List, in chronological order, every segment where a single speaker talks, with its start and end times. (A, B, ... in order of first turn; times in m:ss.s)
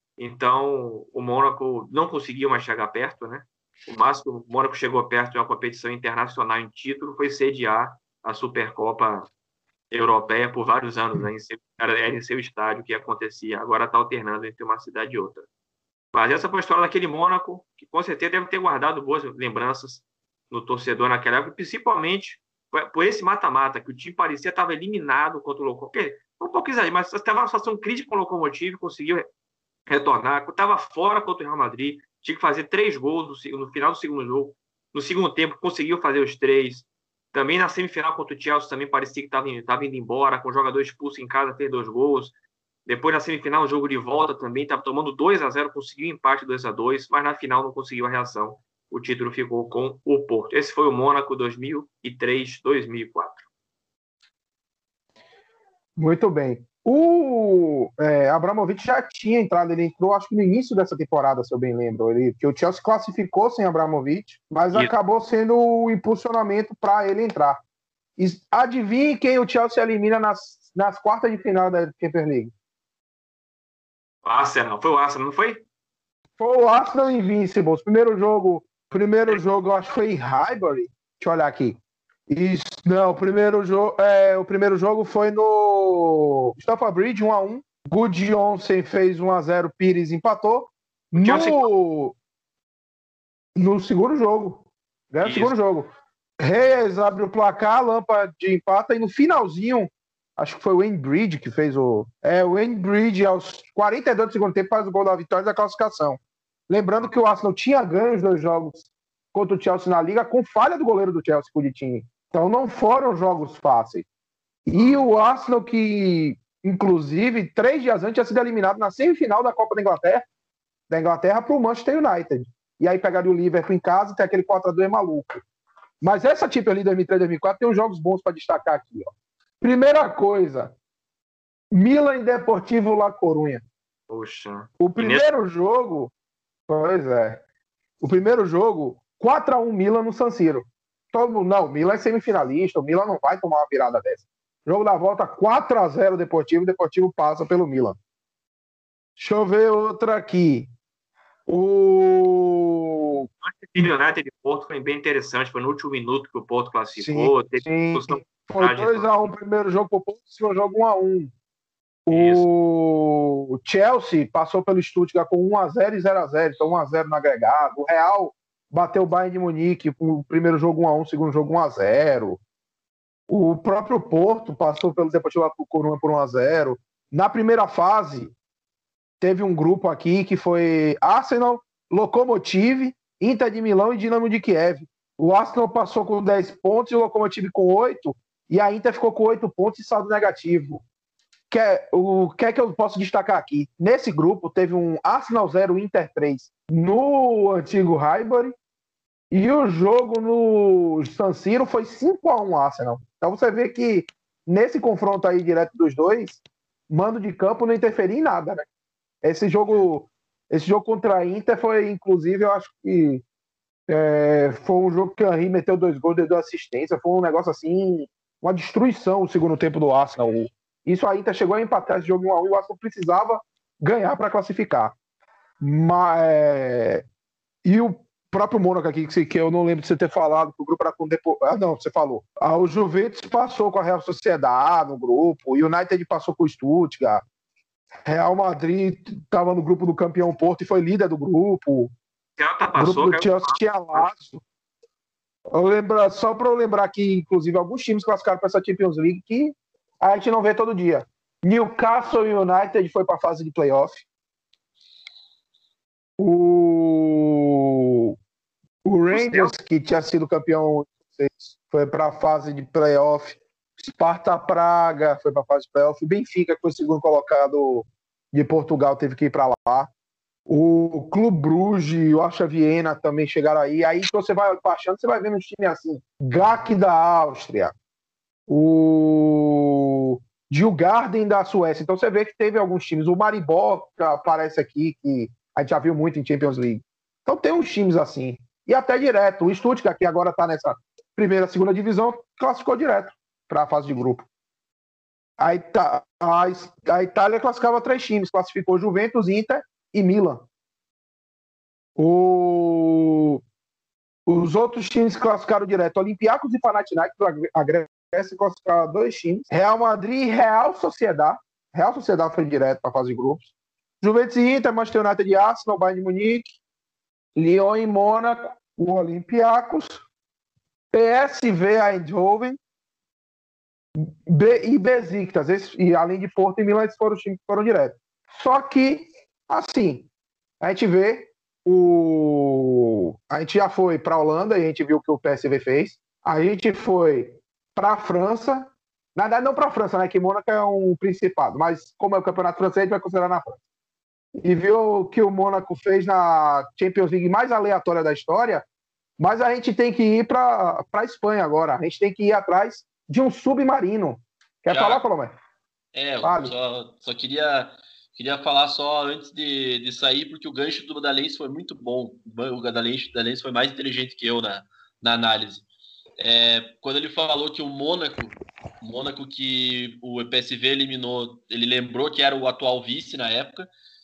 0:00.2-0:09.3 A
0:09.9-0:15.5 A
0:16.1-0:29.3 A
0:29.9-0:42.3 A
0:42.8-0:53.5 A
0:56.0-1:07.6 B
1:08.2-1:12.5 B
1:14.2-1:15.6 A
1:16.4-1:32.2 B
1:31.1-1:31.6 A
1:33.6-1:35.9 B
1:35.2-1:35.5 A
1:36.4-1:54.1 B
1:54.7-2:00.3 B
2:00.9-2:05.4 B
2:06.0-2:10.7 B
2:11.7-2:13.6 B
2:14.1-2:15.2 A
2:14.8-2:16.1 B
2:16.7-2:17.4 B
2:18.0-2:28.0 B
2:29.2-2:30.7 B
2:31.5-2:33.3 B
2:33.4-2:39.1 A
2:37.0-2:41.3 B
2:42.0-2:52.4 B
2:42.1-2:42.4 A
2:53.3-2:58.3 B
2:59.2-3:10.8 B
3:11.5-3:18.5 B
3:19.3-3:28.7 B
3:29.2-3:33.2 B
3:33.9-3:44.9 B
3:45.6-3:47.0 B
3:47.6-3:57.2 B
3:58.0-4:01.9 B
4:02.4-4:04.0 A
4:02.8-4:04.4 B
4:05.5-4:14.0 B
4:16.2-4:18.2 B
4:18.8-4:29.9 B
4:19.1-4:19.5 A
4:30.5-4:37.7 B
4:38.5-4:54.3 B
4:55.4-5:00.4 B
5:02.0-5:03.4 B
5:04.3-5:16.5 B
5:17.3-5:20.0 B
5:20.9-5:22.6 B
5:24.0-5:30.1 B
5:30.6-5:43.6 B
5:44.4-5:48.6 B
5:49.2-5:55.3 B
5:54.7-5:55.0 C
5:55.9-6:05.6 C
5:56.2-5:56.5 B
6:06.2-6:13.7 C